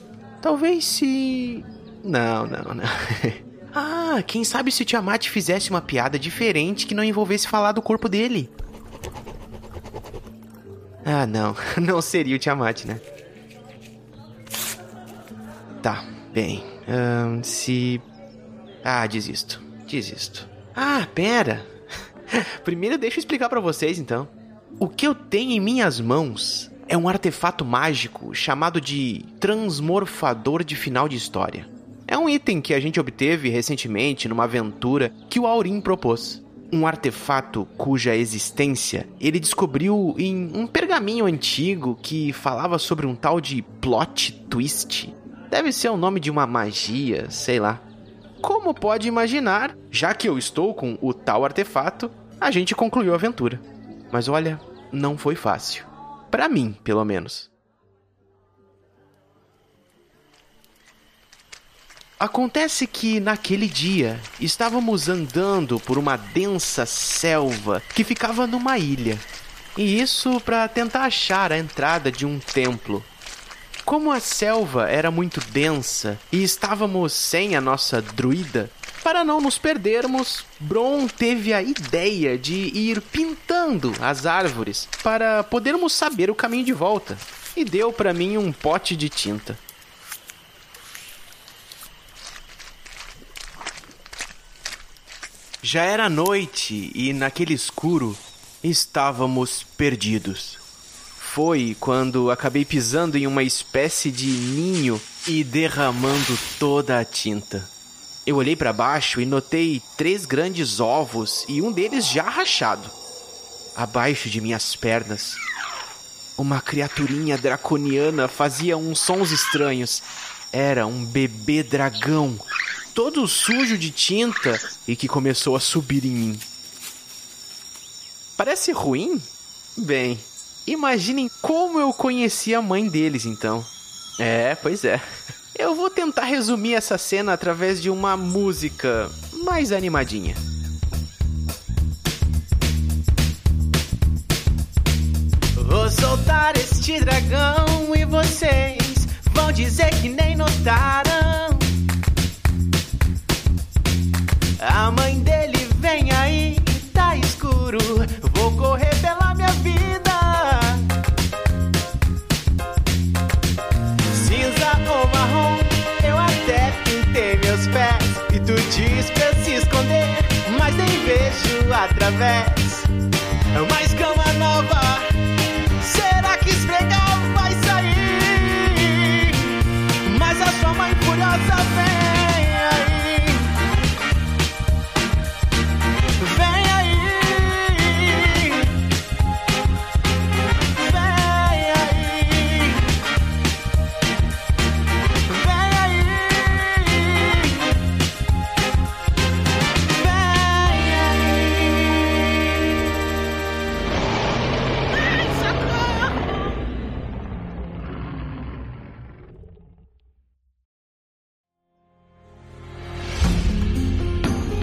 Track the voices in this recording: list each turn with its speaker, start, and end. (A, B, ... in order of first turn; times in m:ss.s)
0:00.4-0:08.5 A
0:11.0-0:13.0 A
0:15.8-0:18.0 A
0:18.8-0:21.7 A
0:22.3-0:47.8 A
0:48.4-0:57.5 A
1:02.2-1:13.1 A
1:13.8-1:29.6 A
1:35.6-1:40.6 A
1:41.2-1:47.7 A
1:48.2-1:52.9 A
1:53.8-1:55.4 A
1:56.4-2:06.4 A
2:08.4-2:20.4 A
2:25.6-2:31.7 A
2:34.6-2:40.9 A
2:44.1-2:52.9 A
2:53.5-2:55.1 A
2:55.8-3:03.5 A
3:06.2-3:08.7 A
3:10.8-3:12.9 A
3:15.3-3:17.7 A
3:19.9-3:22.5 A
3:25.0-3:26.3 A